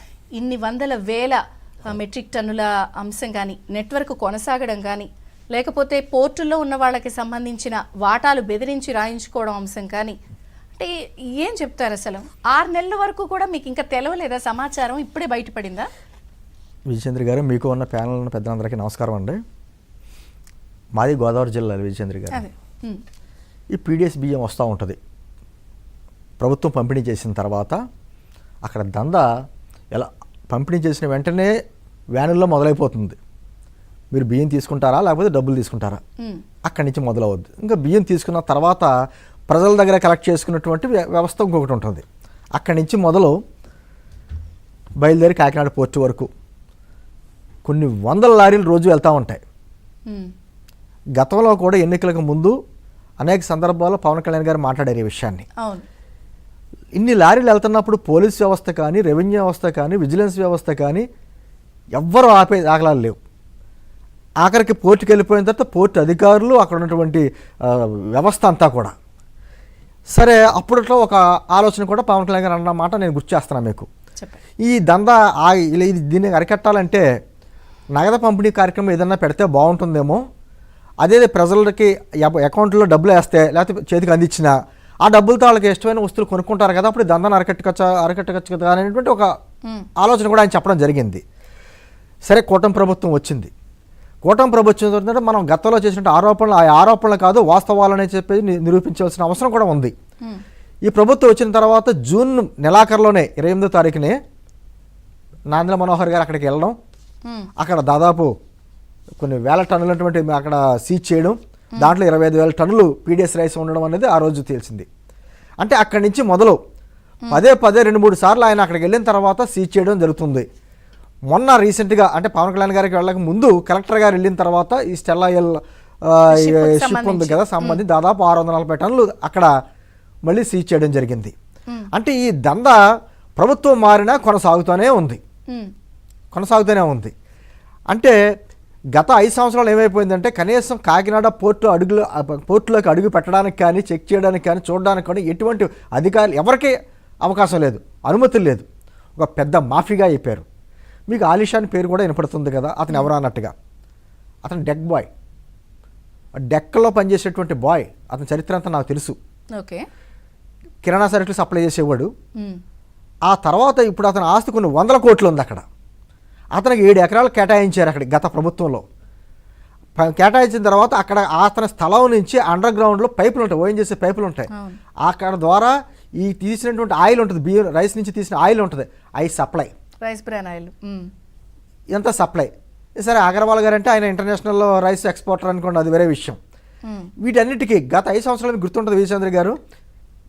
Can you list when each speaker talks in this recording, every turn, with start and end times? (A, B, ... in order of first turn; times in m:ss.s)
0:00.4-0:10.2 A
0:10.8-0:15.9 A
0:16.9-0:19.4 B
0:21.0-0:22.4 B
0:22.3-0:23.0 A
0:23.7-0:25.0 B
0:26.4-0:27.8 B
0:28.6-0:29.3 B
0:29.9-0:31.5 B
0:32.2-0:33.2 B
0:34.1-0:36.0 B
0:36.6-0:38.9 B
0:39.5-0:42.0 B
0:42.6-0:43.4 B
0:45.0-0:46.3 B
0:47.6-0:49.4 B
0:51.2-0:52.6 B
0:53.2-0:55.5 B
0:55.6-0:55.8 A
0:57.0-1:01.1 B
1:02.0-1:03.2 B
1:04.4-1:08.9 B
1:10.1-1:13.9 B
1:14.6-1:17.0 B
1:17.9-1:20.2 B
1:21.0-1:29.3 B
1:30.0-1:31.2 B
1:32.3-1:33.5 B
1:34.2-1:39.9 B
1:40.9-1:44.2 B
1:45.5-1:46.8 B
1:47.6-1:48.3 B
1:49.2-1:54.9 B
1:55.6-1:56.6 B
1:57.3-2:00.5 B
2:01.3-2:09.5 B
2:06.3-2:07.8 A
2:10.3-2:11.3 B
2:11.9-2:12.8 B
2:13.4-2:15.2 B
2:16.3-2:17.1 B
2:17.9-2:18.2 B
2:19.0-2:28.6 B
2:29.2-2:30.4 B
2:31.1-2:33.5 B
2:34.4-2:35.1 B
2:36.5-2:39.2 B
2:39.6-2:39.8 A
2:40.8-2:42.1 B
2:43.3-2:45.6 B
2:46.6-2:48.8 B
2:50.0-2:54.5 B
2:55.0-2:59.7 B
3:00.0-3:01.1 A
3:01.9-3:06.4 B
3:07.2-3:09.6 B